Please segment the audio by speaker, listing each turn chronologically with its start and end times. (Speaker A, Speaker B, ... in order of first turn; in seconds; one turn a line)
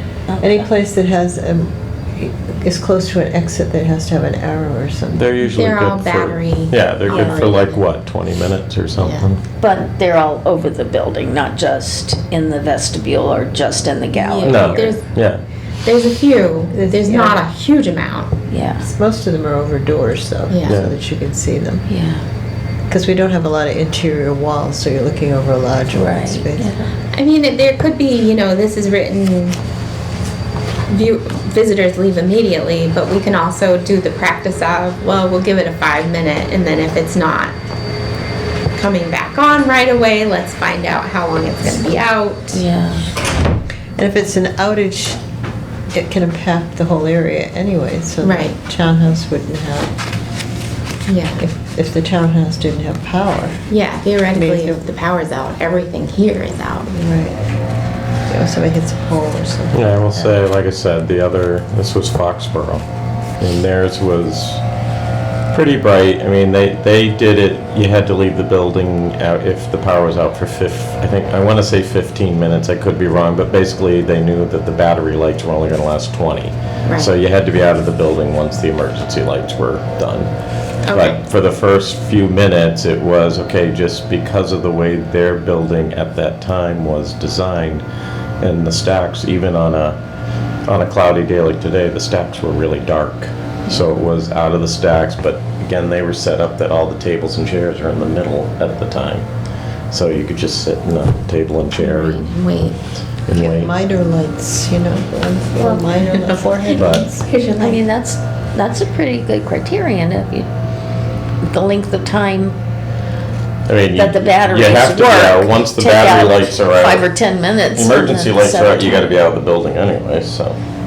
Speaker A: 0.3-0.7
Speaker B: 0.4-5.2
Speaker C: 5.1-9.4
Speaker D: 5.4-7.7
Speaker A: 7.1-7.6
Speaker D: 9.0-9.3
Speaker A: 9.6-14.9
Speaker D: 14.1-15.0
Speaker C: 14.4-15.4
Speaker D: 15.8-18.3
Speaker B: 16.7-17.4
Speaker A: 18.5-18.9
Speaker B: 18.8-21.9
Speaker D: 20.5-20.8
Speaker C: 20.6-20.9
Speaker A: 21.9-22.2
Speaker B: 22.9-26.7
Speaker A: 25.9-26.9
Speaker D: 27.1-29.6
Speaker D: 30.9-37.5
Speaker D: 38.7-42.6
Speaker A: 42.5-43.0
Speaker B: 44.0-45.2
Speaker B: 45.9-49.9
Speaker D: 48.2-48.6
Speaker D: 51.1-51.4
Speaker B: 51.4-53.6
Speaker D: 53.7-56.9
Speaker B: 54.3-54.8
Speaker B: 56.9-57.4
Speaker B: 58.3-60.4
Speaker C: 59.7-62.8
Speaker C: 63.4-64.6
Speaker C: 65.5-80.3
Speaker D: 76.8-77.1
Speaker D: 80.8-81.2
Speaker C: 80.9-87.8
Speaker C: 88.4-90.0
Speaker C: 90.7-99.3
Speaker C: 99.9-102.3
Speaker A: 101.8-102.7
Speaker C: 103.2-103.7
Speaker B: 103.3-106.9
Speaker D: 105.6-107.8
Speaker C: 106.7-107.1
Speaker A: 107.6-110.5
Speaker A: 111.4-112.6
Speaker C: 113.7-117.1
Speaker A: 113.9-119.2
Speaker C: 117.7-120.6